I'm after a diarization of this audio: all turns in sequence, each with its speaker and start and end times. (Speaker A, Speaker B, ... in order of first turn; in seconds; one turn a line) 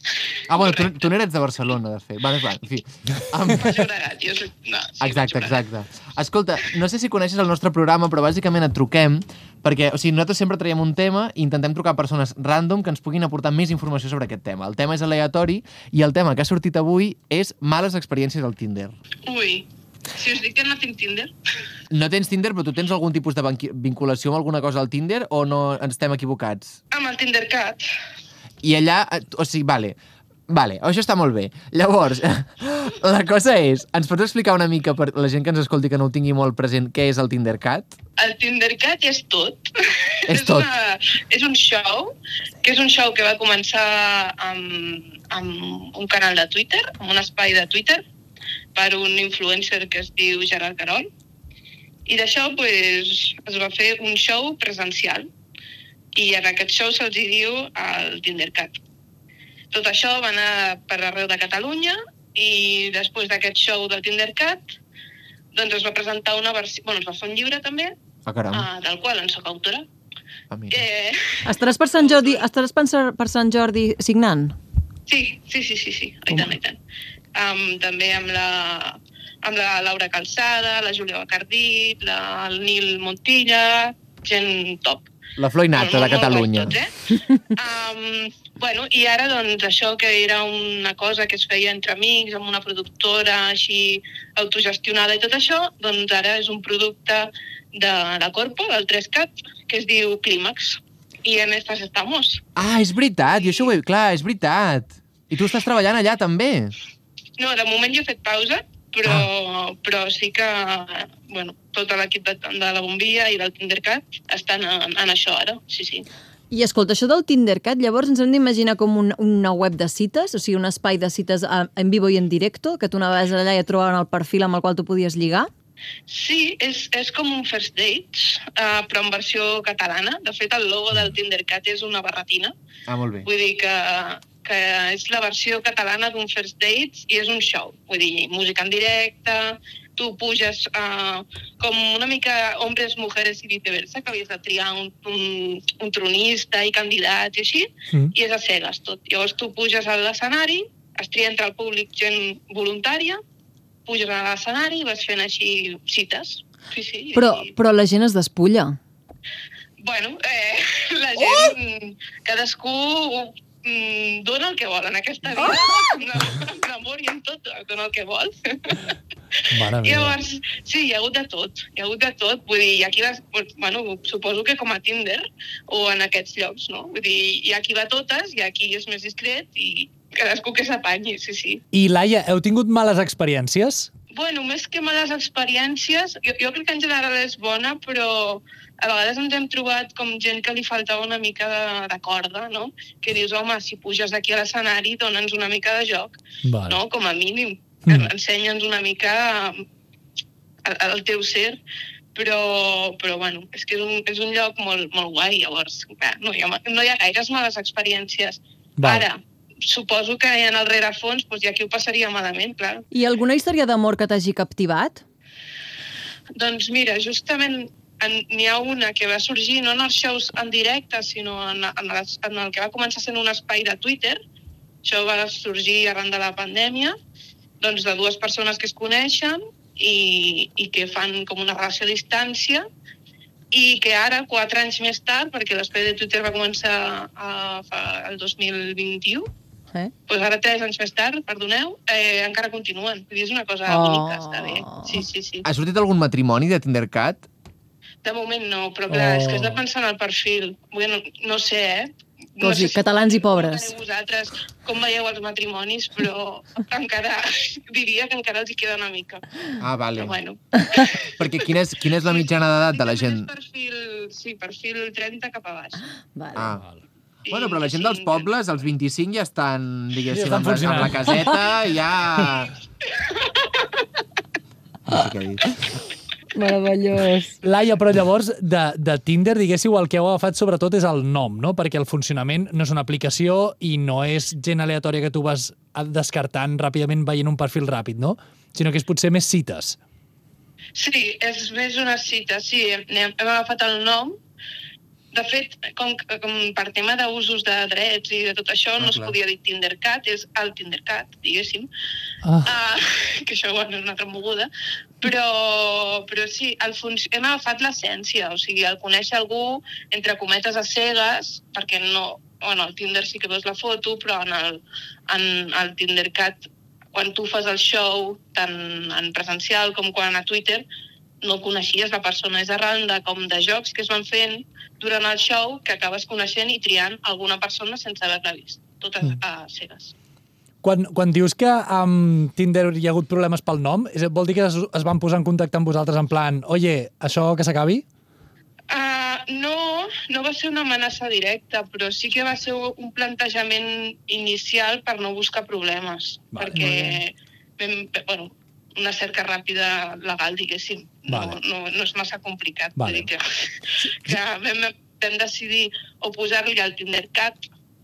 Speaker A: 0.5-3.8
Speaker B: 0.5-1.0
Speaker B: 3.5-5.6
Speaker A: 5.0-18.9
Speaker B: 19.3-21.3
Speaker A: 21.9-26.8
Speaker B: 26.9-27.8
Speaker A: 28.6-30.0
Speaker A: 30.5-38.0
Speaker B: 38.2-48.0
Speaker A: 40.3-40.7
Speaker B: 48.7-51.1
Speaker B: 52.0-55.3
Speaker B: 56.1-58.8
Speaker B: 59.7-64.6
Speaker B: 65.5-67.9
Speaker A: 68.3-68.7
Speaker B: 68.5-69.9
Speaker A: 70.5-70.8
Speaker B: 70.7-72.5
Speaker C: 71.5-74.5
Speaker B: 75.1-76.8
Speaker C: 76.3-76.5
Speaker B: 77.3-85.1
Speaker A: 85.4-86.8
Speaker B: 85.7-86.9
Speaker B: 87.5-102.4
Speaker A: 102.5-106.7
Speaker B: 103.4-103.7
Speaker B: 107.4-116.0
Speaker C: 116.5-125.5
Speaker B: 126.1-132.5
Speaker A: 132.9-133.3
Speaker B: 133.2-153.2
Speaker B: 153.9-157.5
Speaker C: 157.1-158.8
Speaker B: 159.8-181.6
Speaker D: 169.5-170.2
Speaker D: 181.7-183.9
Speaker B: 184.1-199.6
Speaker D: 196.4-196.8
Speaker B: 200.6-201.6
Speaker B: 202.1-212.8
Speaker D: 208.8-209.1
Speaker C: 212.9-215.0
Speaker B: 216.4-224.2
Speaker B: 224.8-226.9
Speaker B: 227.6-232.7
Speaker B: 233.5-239.3
Speaker B: 240.1-245.4
Speaker C: 243.7-245.1
Speaker A: 245.4-247.3
Speaker B: 248.0-259.2
Speaker D: 248.9-249.6
Speaker C: 252.4-253.7
Speaker A: 259.6-260.1
Speaker B: 259.9-265.8
Speaker A: 261.1-263.3
Speaker C: 266.1-266.5
Speaker A: 266.3-266.6
Speaker B: 267.3-268.3
Speaker A: 267.3-272.5
Speaker D: 270.1-271.4
Speaker B: 272.9-273.8
Speaker A: 274.9-275.8
Speaker C: 276.3-277.4
Speaker D: 277.4-289.8
Speaker B: 290.7-294.2
Speaker B: 295.1-301.7
Speaker A: 298.8-299.1
Speaker D: 302.2-302.6
Speaker B: 302.4-304.5
Speaker B: 305.0-320.6
Speaker B: 321.2-329.9
Speaker D: 330.6-337.8
Speaker B: 338.7-357.4
Speaker D: 346.3-347.0
Speaker D: 351.1-351.4
Speaker D: 352.8-353.1
Speaker D: 353.8-354.1